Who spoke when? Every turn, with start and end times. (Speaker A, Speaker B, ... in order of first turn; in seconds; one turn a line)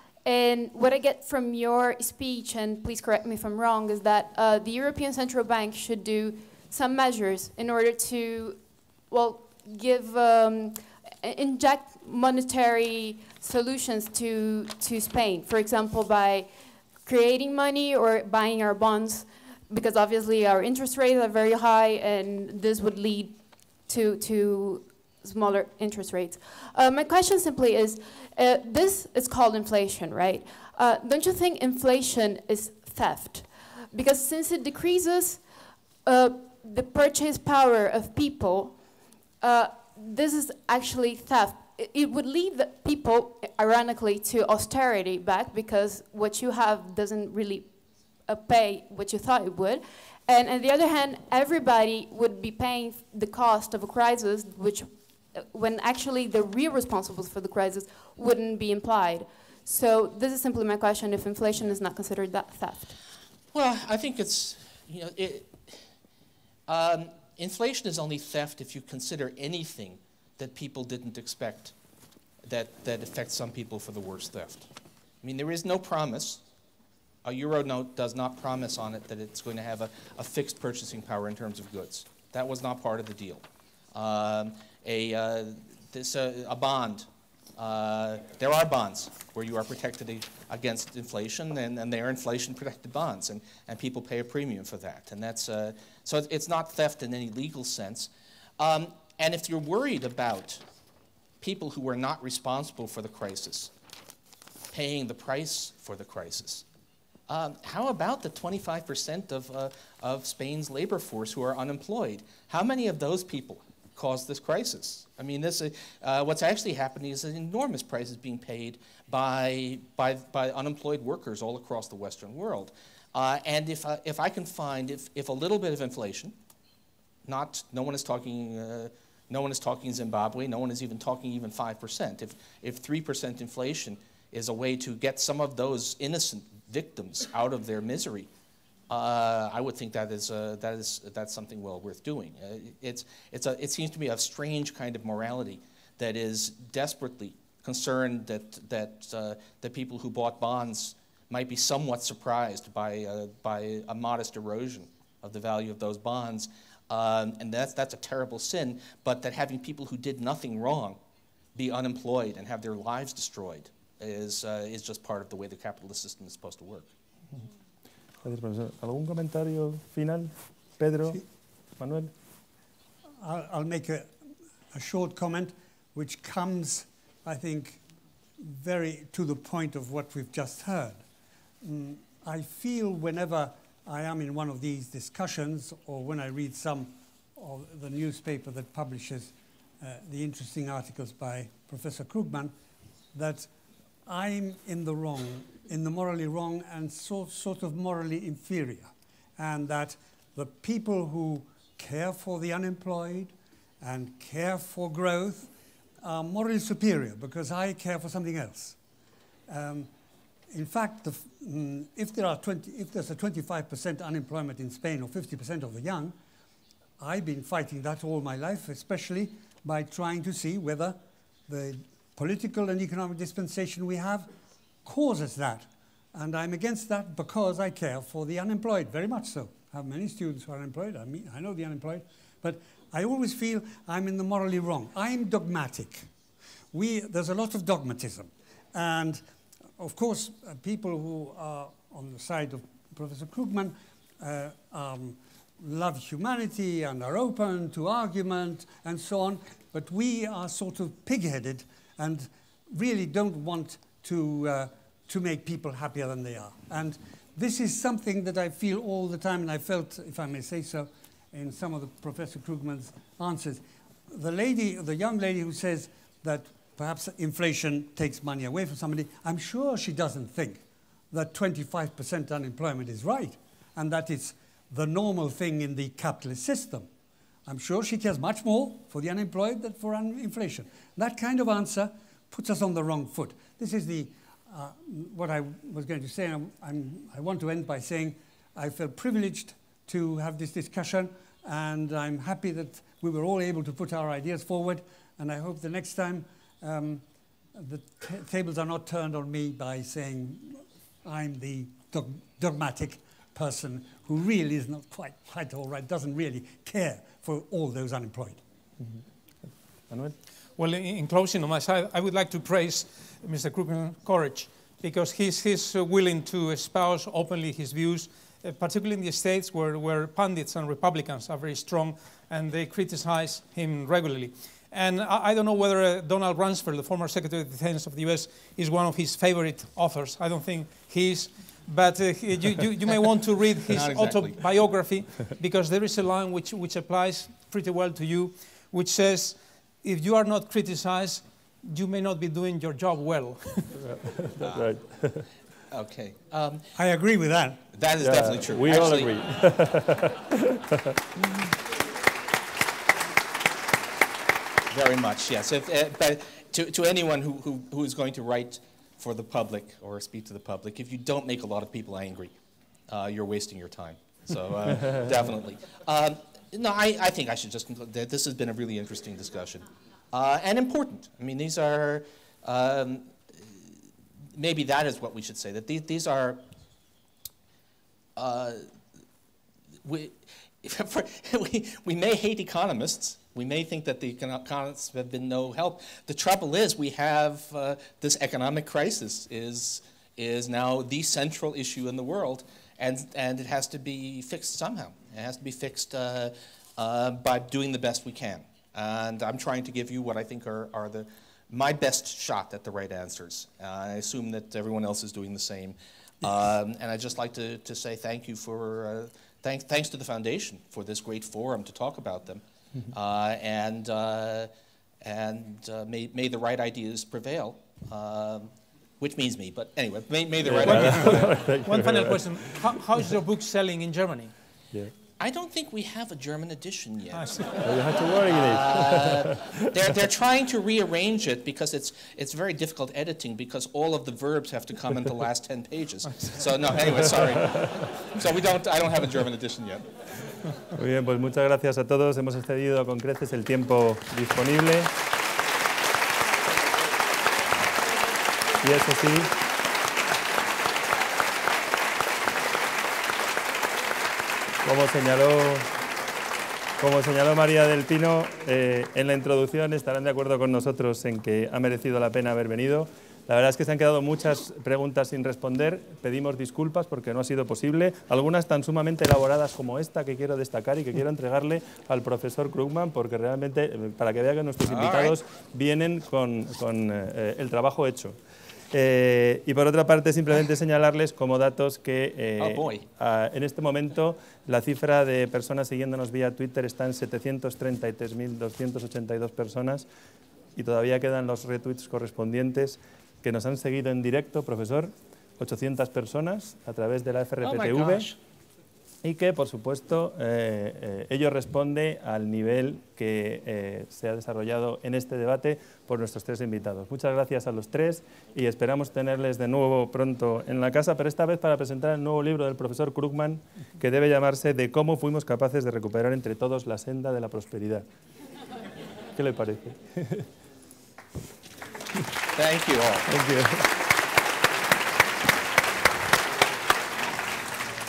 Speaker A: 0.2-35.5
Speaker A: 36.0-63.0
Speaker B: 63.5-65.8
Speaker B: 66.7-71.7
Speaker B: 72.5-74.7
Speaker B: 75.2-76.4
Speaker B: 77.2-100.6
Speaker B: 101.4-103.7
Speaker B: 104.7-106.7
Speaker B: 107.3-126.4
Speaker B: 127.2-138.3
Speaker B: 138.9-161.0
Speaker B: 161.6-166.9
Speaker C: 168.2-171.2
Speaker C: 171.8-172.1
Speaker D: 173.2-174.1
Speaker D: 174.7-177.8
Speaker D: 178.4-181.0
Speaker D: 181.6-192.5
Speaker D: 193.1-193.5
Speaker D: 194.1-205.5
Speaker D: 206.0-208.8
Speaker D: 209.5-209.9
Speaker D: 210.5-216.2
Speaker D: 217.0-221.0
Speaker D: 221.5-224.3
Speaker D: 224.8-236.1
Speaker D: 236.7-239.2
Speaker D: 239.8-276.9
Speaker D: 277.5-297.0
Speaker D: 297.5-308.4
Speaker C: 308.8-310.2
Speaker E: 310.6-343.8
Speaker B: 333.7-334.4
Speaker C: 343.8-345.3
Speaker B: 345.7-346.7
Speaker D: 346.8-347.6
Speaker B: 347.7-349.2
Speaker C: 348.0-350.8
Speaker B: 354.7-362.4
Speaker B: 362.9-373.6
Speaker B: 374.4-376.4
Speaker B: 378.2-378.6
Speaker B: 379.9-414.5
Speaker B: 415.0-421.3
Speaker C: 420.4-422.4
Speaker E: 420.6-424.3
Speaker B: 425.2-427.6
Speaker E: 427.1-427.5
Speaker C: 427.6-429.4
Speaker B: 428.3-439.9
Speaker C: 440.8-444.9
Speaker C: 448.6-449.3
Speaker C: 454.6-455.7
Speaker C: 456.8-478.2
Speaker B: 474.6-475.2
Speaker C: 478.7-489.9
Speaker B: 482.4-482.9
Speaker C: 490.6-498.1
Speaker B: 497.4-498.2
Speaker C: 499.0-517.9
Speaker C: 519.1-520.3
Speaker B: 522.3-523.1
Speaker C: 523.1-523.7